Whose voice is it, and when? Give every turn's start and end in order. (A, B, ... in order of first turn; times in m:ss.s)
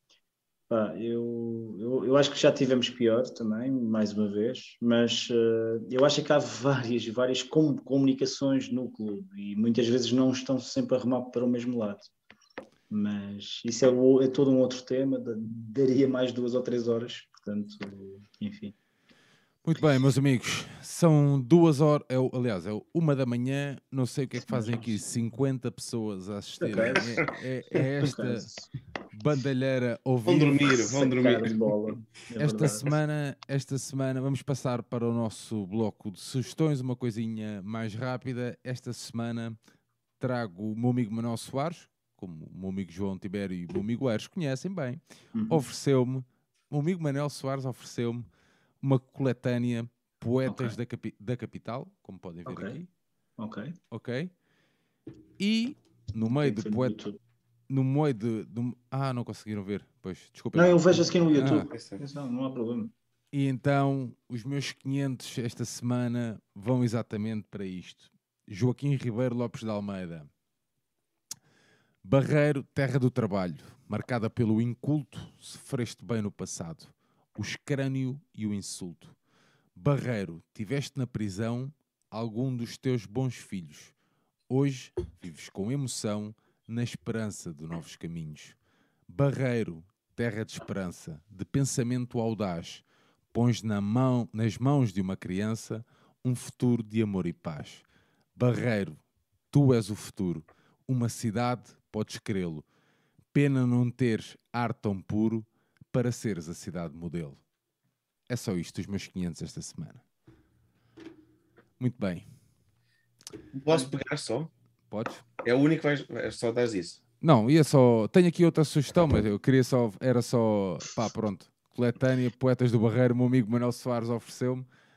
0:00.7-0:12.1 A
0:12.9-0:18.7 A
0:19.6-0:28.5 B
0:24.5-0:25.0 A
0:26.6-0:27.2 A
0:27.8-0:28.7 A
0:29.1-0:30.9 B
0:30.2-0:31.9 C
0:30.8-0:32.8 A
0:32.4-0:39.6 B
0:40.2-0:48.3 B
0:45.3-0:45.6 A
0:48.8-0:52.9 B
0:50.5-0:50.7 A
0:52.5-0:52.8 A
0:53.4-0:53.8 A
0:53.9-0:54.3 B
0:55.4-0:57.0 B
0:56.2-0:57.2 A
0:57.7-1:01.7 B
1:00.5-1:02.9 A
1:01.4-1:02.0 C
1:03.3-1:10.3 B
1:12.0-1:19.1 B
1:19.8-1:23.9 B
1:24.5-1:28.6 B
1:29.1-1:37.8 B
1:38.4-1:42.6 B
1:43.3-1:47.4 B
1:48.3-1:50.0 B
1:51.8-1:52.2 B
1:53.5-1:54.5 C
1:54.9-1:55.2 B
1:55.4-1:57.0 C
1:57.2-2:04.6 B